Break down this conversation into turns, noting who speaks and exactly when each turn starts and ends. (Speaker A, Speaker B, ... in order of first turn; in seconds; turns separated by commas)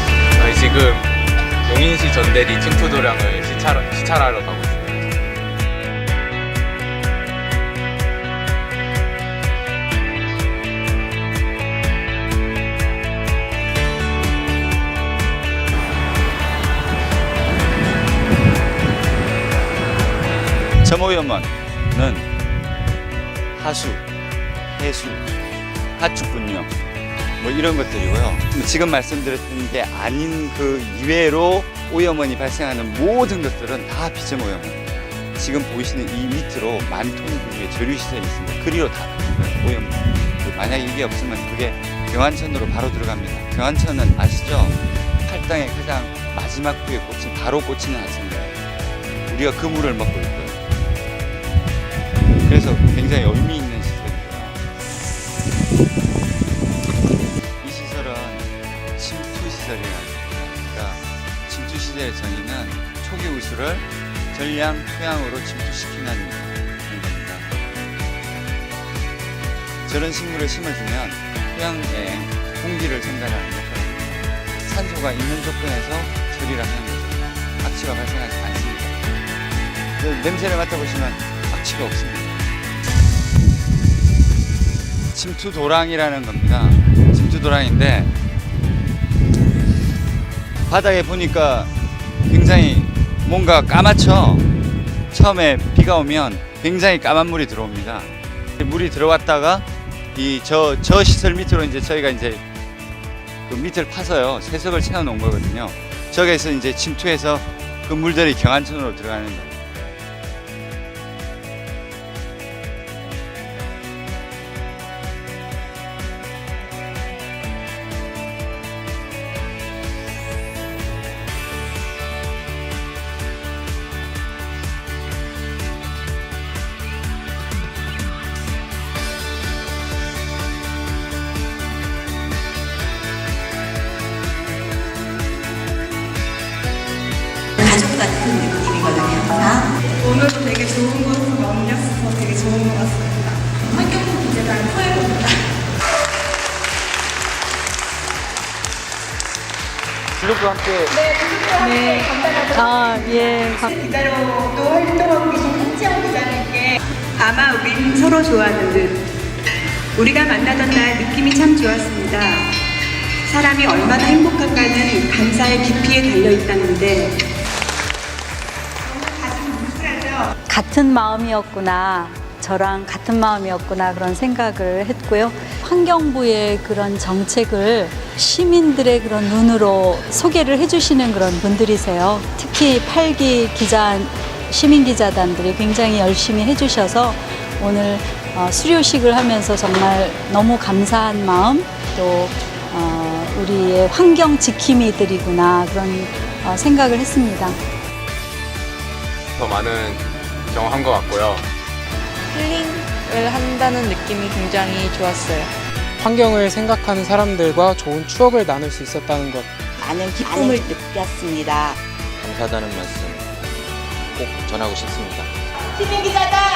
Speaker A: 0.4-1.1, Speaker A: 1.6-5.1, Speaker B: 20.8-22.3, Speaker B: 23.6-24.0, Speaker B: 24.7-25.3, Speaker B: 26.0-26.7, Speaker B: 27.4-48.6, Speaker B: 49.3-50.6, Speaker B: 52.5-54.6, Speaker B: 57.6-67.5, Speaker B: 69.9-79.0, Speaker B: 80.0-82.4, Speaker B: 85.1-88.1, Speaker B: 90.7-91.7, Speaker B: 92.2-94.5, Speaker B: 95.1-102.4, Speaker B: 103.5-109.7, Speaker C: 137.6-139.7, Speaker D: 139.9-145.4, Speaker B: 150.2-150.9, Speaker D: 150.9-159.0, Speaker E: 151.6-153.7, Speaker D: 160.0-162.5, Speaker D: 163.3-167.2, Speaker D: 168.9-170.3, Speaker E: 170.5-197.6, Speaker A: 199.4-201.4, Speaker F: 202.3-205.5, Speaker G: 206.0-209.5, Speaker C: 209.8-211.8, Speaker H: 212.2-213.3, Speaker H: 214.2-215.3